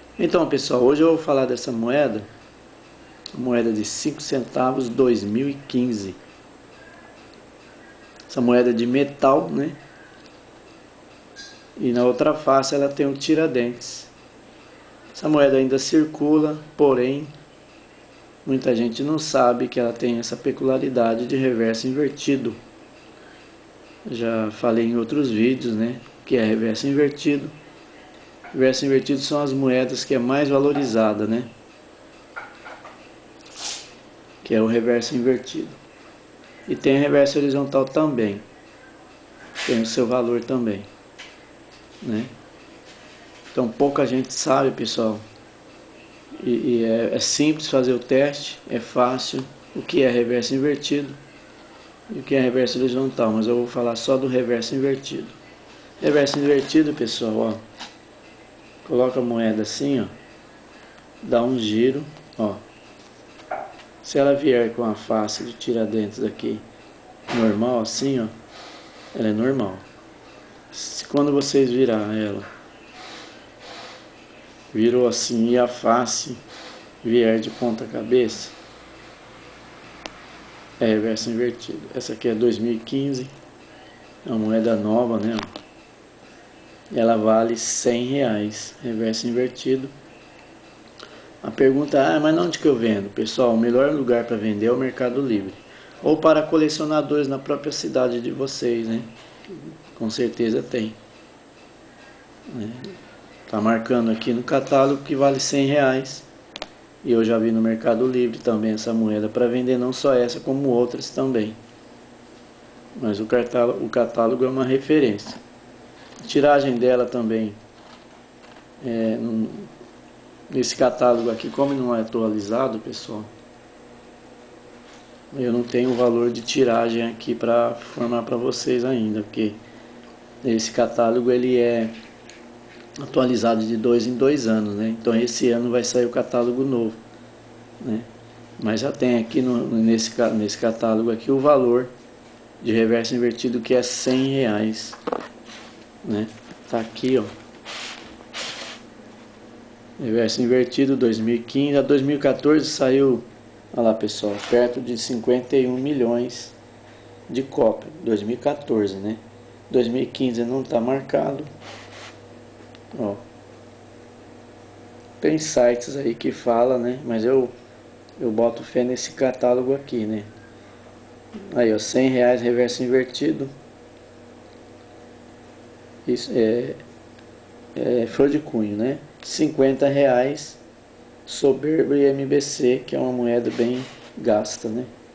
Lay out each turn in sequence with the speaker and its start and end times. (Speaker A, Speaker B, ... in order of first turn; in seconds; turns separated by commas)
Speaker A: 0.2-2.2, Speaker A: 3.3-6.2, Speaker A: 8.3-9.8, Speaker A: 11.8-14.1, Speaker A: 15.1-17.3, Speaker A: 18.4-22.6, Speaker A: 24.1-27.5, Speaker A: 28.5-31.5, Speaker A: 34.4-35.8, Speaker A: 36.7-38.4, Speaker A: 39.6-40.9, Speaker A: 42.0-42.3, Speaker A: 43.5-45.2, Speaker A: 46.4-51.2, Speaker A: 52.1-55.4, Speaker A: 56.0-57.6, Speaker A: 58.8-60.1, Speaker A: 61.2-62.6, Speaker A: 64.0-66.6, Speaker A: 67.3-68.3, Speaker A: 69.1-69.8, Speaker A: 70.7-72.5, Speaker A: 74.7-76.4, Speaker A: 77.0-78.5, Speaker A: 80.8-83.3, Speaker A: 84.2-85.5, Speaker A: 86.9-89.9, Speaker A: 91.4-101.0, Speaker A: 102.5-102.9, Speaker A: 103.5-106.3, Speaker A: 107.0-111.6, Speaker A: 113.0-115.4, Speaker A: 116.2-117.6, Speaker A: 118.8-119.7, Speaker A: 120.5-123.3, Speaker A: 125.3-129.6, Speaker A: 130.4-131.9, Speaker A: 133.0-137.0, Speaker A: 137.8-138.1, Speaker A: 138.6-141.9, Speaker A: 142.6-145.0, Speaker A: 146.0-147.3, Speaker A: 150.0-156.6, Speaker A: 157.3-161.5, Speaker A: 162.9-163.2, Speaker A: 165.2-167.5, Speaker A: 168.2-170.3, Speaker A: 171.5-173.5, Speaker A: 176.0-176.8, Speaker A: 177.7-180.6, Speaker A: 181.2-184.9